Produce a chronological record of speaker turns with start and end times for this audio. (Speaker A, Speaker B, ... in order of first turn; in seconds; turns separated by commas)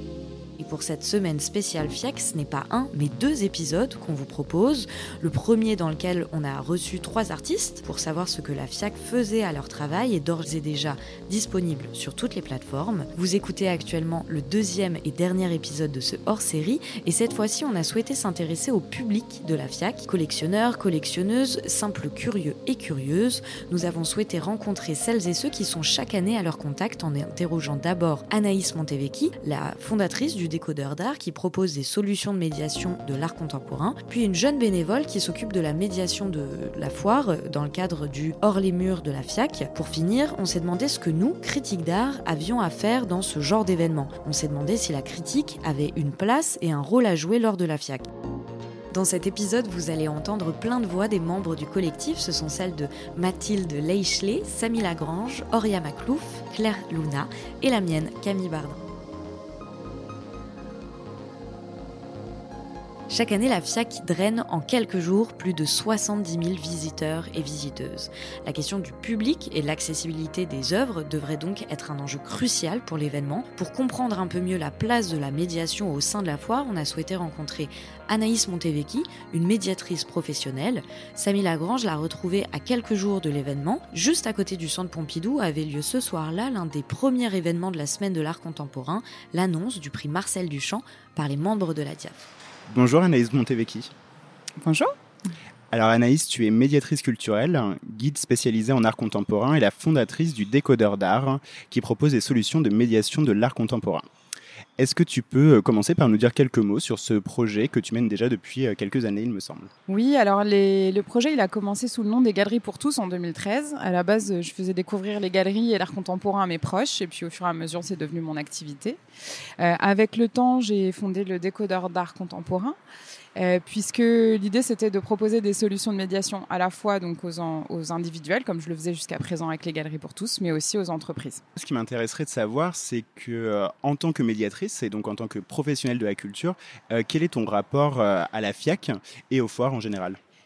Speaker A: 0.6-48.1, Speaker A: 48.9-58.8, Speaker A: 63.1-92.3, Speaker B: 92.7-93.9, Speaker C: 94.6-94.9, Speaker B: 95.7-104.1, Speaker B: 104.8-109.7, Speaker C: 109.9-119.0, Speaker C: 119.6-122.8, Speaker C: 123.4-131.4, Speaker B: 131.6-140.2